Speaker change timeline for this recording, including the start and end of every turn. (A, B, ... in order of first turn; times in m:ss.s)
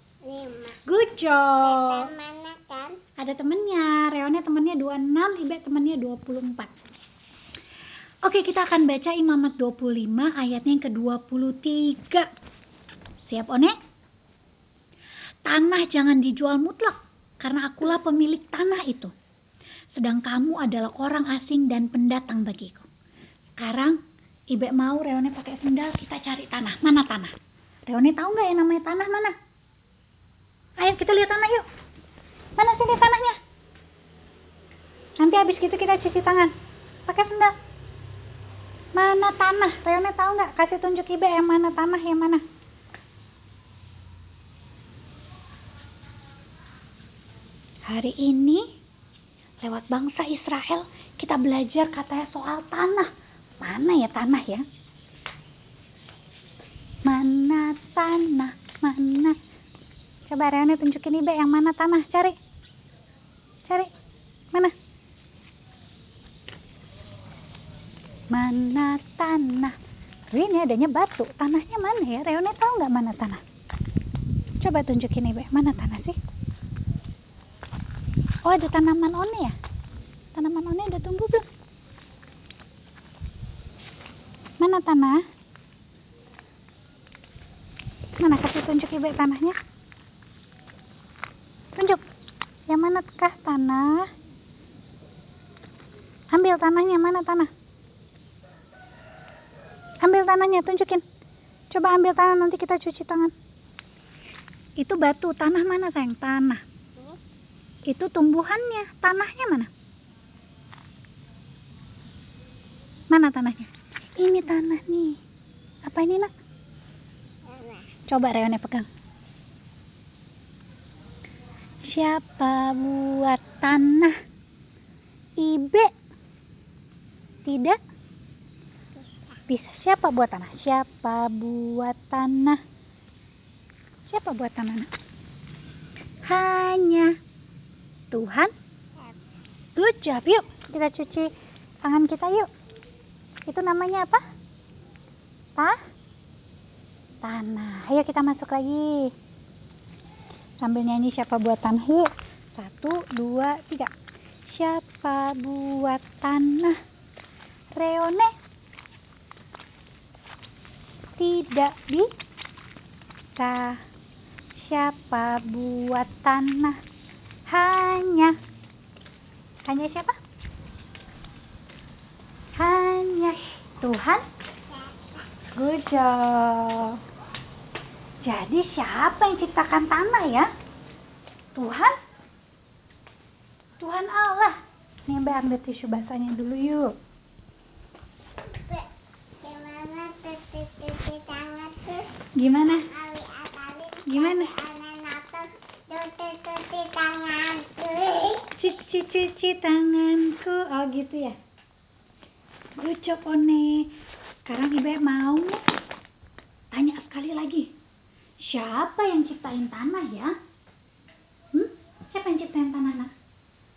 0:00.2-0:00.8 A
0:00.8-0:02.1 B
0:01.6-0:03.0 A
0:03.2-0:06.8 B
0:08.2-0:12.3 B
0:13.2-0:13.7 B
0:15.4-0:19.1 B
0:19.9-0:22.9 B
0:23.6-0:24.0 B
0:24.5-0:27.3 B
0:27.9-0:29.3 B
0:30.8-0:31.6 B
0:32.6-0:33.4 B
0:35.2-0:36.5 B
0:37.1-0:37.5 B
0:38.9-0:42.4 B
0:47.8-0:48.7 B
0:49.6-0:54.6 B
0:57.0-0:59.4 B
1:00.3-1:02.4 B
1:03.6-1:03.9 B
1:08.3-1:09.8 B
1:10.3-1:13.4 B
1:14.6-1:16.2 B
1:18.4-1:19.6 B
1:20.3-1:21.5 B
1:24.6-1:25.2 B
1:28.2-1:29.6 B
1:31.7-1:32.0 B
1:32.7-1:34.1 B
1:36.3-1:37.5 B
1:40.0-1:41.0 B
1:41.7-1:43.3 B
1:44.8-1:46.6 B
1:47.8-1:49.7 B
1:53.1-1:55.2 B
1:55.8-1:56.3 B
1:57.4-1:57.9 A
1:58.1-1:58.9 B
2:01.8-2:04.2 B
2:05.4-2:05.9 B
2:07.4-2:07.8 B
2:09.0-2:09.4 A
2:09.5-2:12.6 B
2:14.1-2:14.9 B
2:16.2-2:17.1 B
2:18.1-2:18.5 B
2:19.8-2:21.3 B
2:21.8-2:22.5 B
2:23.4-2:24.2 B
2:27.2-2:29.1 B
2:30.6-2:33.9 B
2:34.4-2:36.8 B
2:37.7-2:38.3 B
2:41.2-2:42.1 B
2:43.4-2:43.8 B
2:44.6-2:46.8 B
2:47.5-2:48.4 B
2:49.6-2:50.2 B
2:52.6-2:54.2 B
2:54.7-2:55.2 A
2:55.5-2:57.0 B
2:58.2-3:00.5 B
3:01.5-3:02.0 B
3:03.8-3:06.9 B
3:08.5-3:08.9 A
3:09.4-3:18.5 A
3:12.4-3:12.8 B
3:14.1-3:14.6 B
3:18.5-3:21.4 B
3:22.8-3:23.9 B
3:24.4-3:25.6 B
3:26.7-3:27.7 B
3:28.4-3:30.3 B
3:31.5-3:33.1 B